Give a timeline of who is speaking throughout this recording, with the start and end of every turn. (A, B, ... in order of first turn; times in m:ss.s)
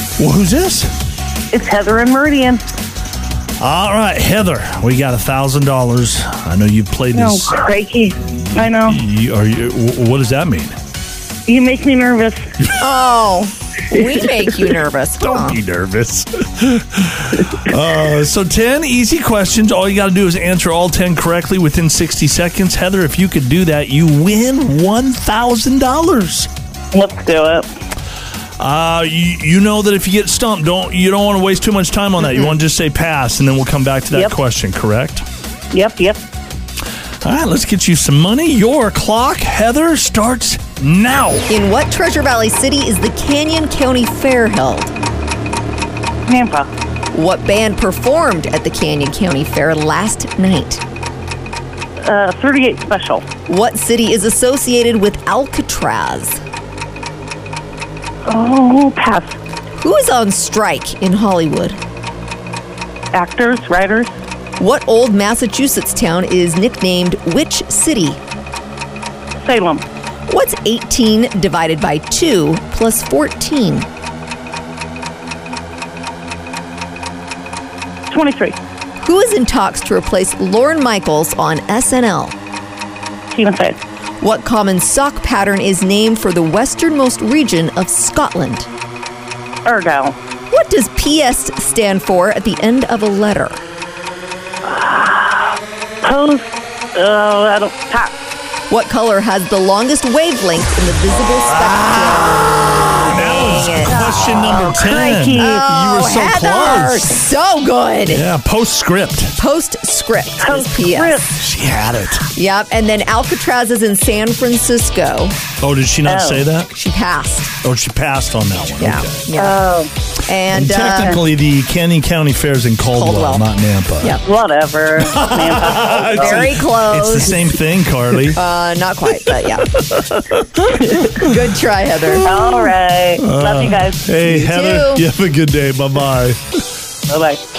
0:00.2-0:00.9 A
0:01.5-0:02.6 B
0:03.6-0:07.6 A
0:07.1-0:09.0 B
0:08.5-0:10.8 A
0:11.5-0:12.5 B
0:12.7-0:15.6 C
0:13.9-0:14.8 B
0:15.2-0:26.5 A
0:26.9-0:27.7 B
0:28.6-0:35.2 A
0:35.7-0:36.2 B
0:37.2-0:41.5 A
0:41.5-0:44.9 C
0:46.3-0:46.7 B
0:47.1-0:50.8 C
0:52.0-0:53.3 B
0:53.5-0:56.4 C
0:58.3-0:59.4 B
0:59.8-1:01.8 C
1:03.1-1:04.1 B
1:04.6-1:08.2 C
1:09.4-1:09.8 B
1:10.3-1:13.9 C
1:18.1-1:18.6 B
1:19.0-1:22.4 C
1:23.3-1:23.8 B
1:24.2-1:28.7 C
1:29.6-1:30.2 B
1:30.5-1:33.6 C
1:34.6-1:38.1 B
1:38.7-1:44.6 C
1:41.5-1:47.1 A
1:43.9-1:45.7 B
1:45.4-1:48.2 C
1:48.1-1:49.4 A
1:49.4-1:51.4 C
1:50.4-1:51.4 B
1:51.4-1:52.3 A
1:52.3-1:55.4 C
1:55.6-1:56.7 A
1:56.0-1:56.5 B
1:56.7-1:57.5 C
1:57.6-1:59.2 A
1:58.8-1:59.6 C
1:59.3-1:59.9 B
2:00.3-2:01.2 C
2:00.5-2:04.2 A
2:02.9-2:03.5 C
2:04.2-2:06.6 B
2:05.0-2:08.4 A
2:06.2-2:07.6 C
2:08.3-2:09.8 C
2:09.8-2:11.1 A
2:10.8-2:12.5 C
2:12.1-2:14.1 B
2:13.2-2:16.4 A
2:14.2-2:15.1 C
2:17.1-2:17.4 B